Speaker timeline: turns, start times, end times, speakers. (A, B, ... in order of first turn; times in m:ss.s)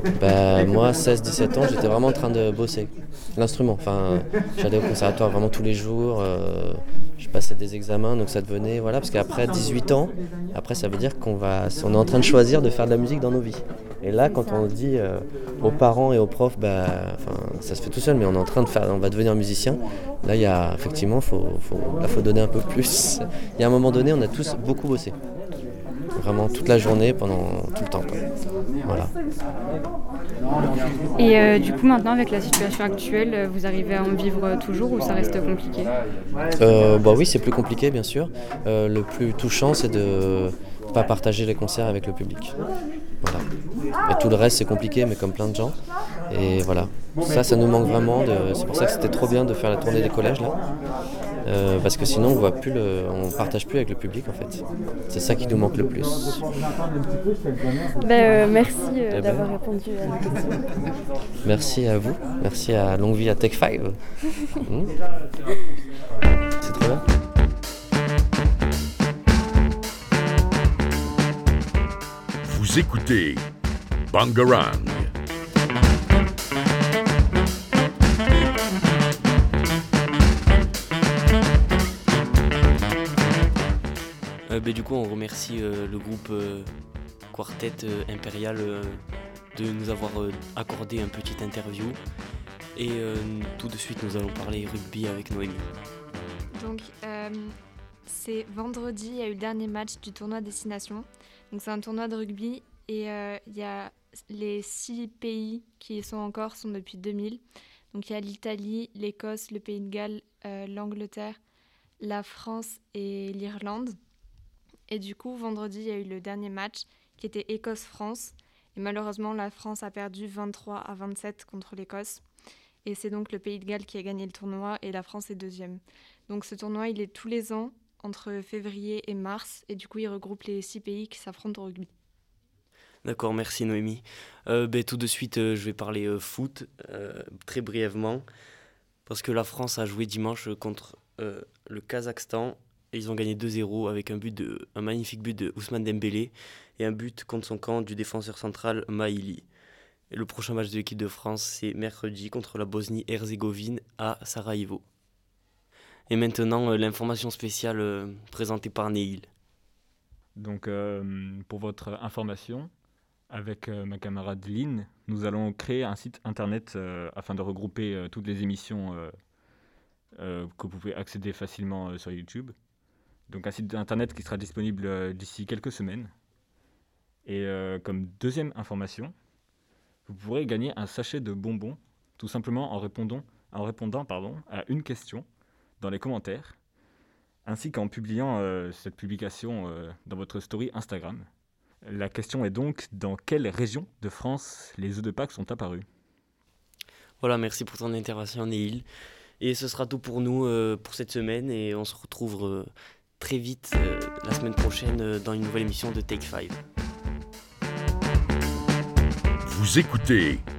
0:00.2-0:25.2 A
0:26.2-0:28.2 A
0:28.9-0:29.1 A
0:31.2-0:35.9 B
0:36.6-0:42.6 A
0:44.1-0:45.8 A
0:46.3-0:50.6 A
0:51.4-0:56.4 A
0:58.0-1:00.6 C
0:59.1-0:59.5 A
1:01.4-1:04.0 A
1:04.7-1:04.9 A
1:06.6-1:07.0 A
1:12.6-1:13.3 D
1:14.1-1:15.1 D
1:24.5-1:26.7 E
1:27.3-1:29.0 E
1:29.5-1:32.0 E
1:32.8-1:35.7 E
1:36.6-1:37.5 F
1:38.1-1:51.4 F
1:52.0-1:54.0 F
1:54.9-2:02.2 F
2:02.8-2:11.9 F
2:13.0-2:18.3 E
2:19.1-2:29.4 E
2:30.1-2:34.8 E
2:36.1-2:39.3 E
2:40.4-2:42.7 G
2:43.3-2:49.1 G
2:50.2-2:52.5 G
2:53.3-2:56.1 G
2:57.3-2:59.1 G
3:00.1-3:05.3 G
3:05.8-3:06.6 G
3:07.4-3:11.3 G
3:11.9-3:15.8 G
3:17.2-3:18.9 E
3:19.4-3:26.6 E
3:29.5-3:30.4 D